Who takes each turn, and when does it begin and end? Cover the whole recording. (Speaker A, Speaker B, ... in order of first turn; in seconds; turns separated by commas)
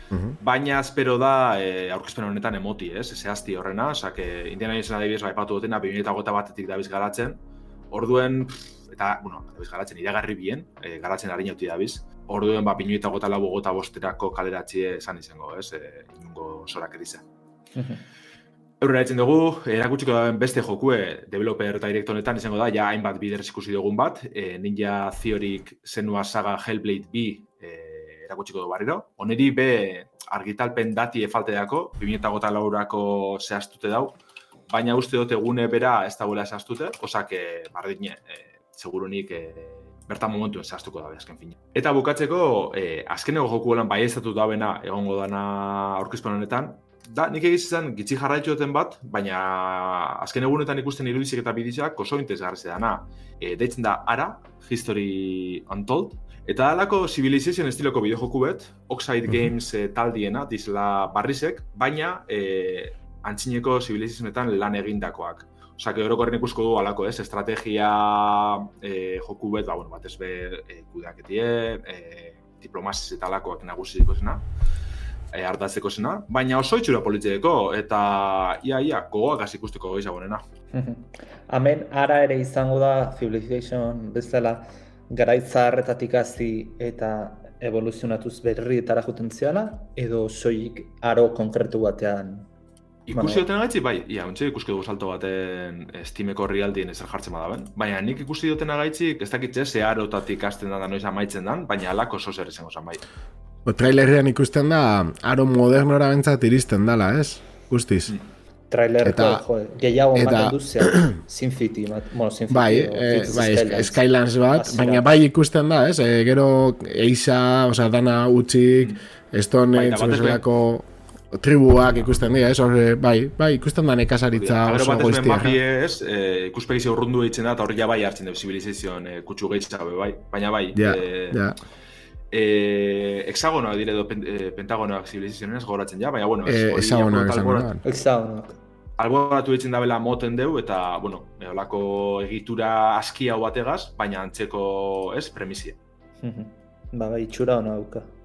Speaker A: 0.1-0.4, Speaker B: 0.4-7.4, Speaker B: 7.9-17.2, Speaker C: 17.7-18.0, Speaker B: 18.8-34.1, Speaker B: 34.7-74.4, Speaker B: 75.3-80.4, Speaker C: 80.7-92.5, Speaker B: 93.1-103.0, Speaker C: 93.1-93.4, Speaker A: 103.7-108.1, Speaker C: 108.7-115.2, Speaker A: 109.0-109.4, Speaker A: 110.1-111.2, Speaker A: 112.5-125.6, Speaker B: 119.7-120.4, Speaker B: 124.3-131.4, Speaker A: 130.8-131.6, Speaker B: 132.3-137.7, Speaker A: 136.4-137.8, Speaker C: 137.8-138.6, Speaker B: 139.0-145.8, Speaker C: 146.2-148.1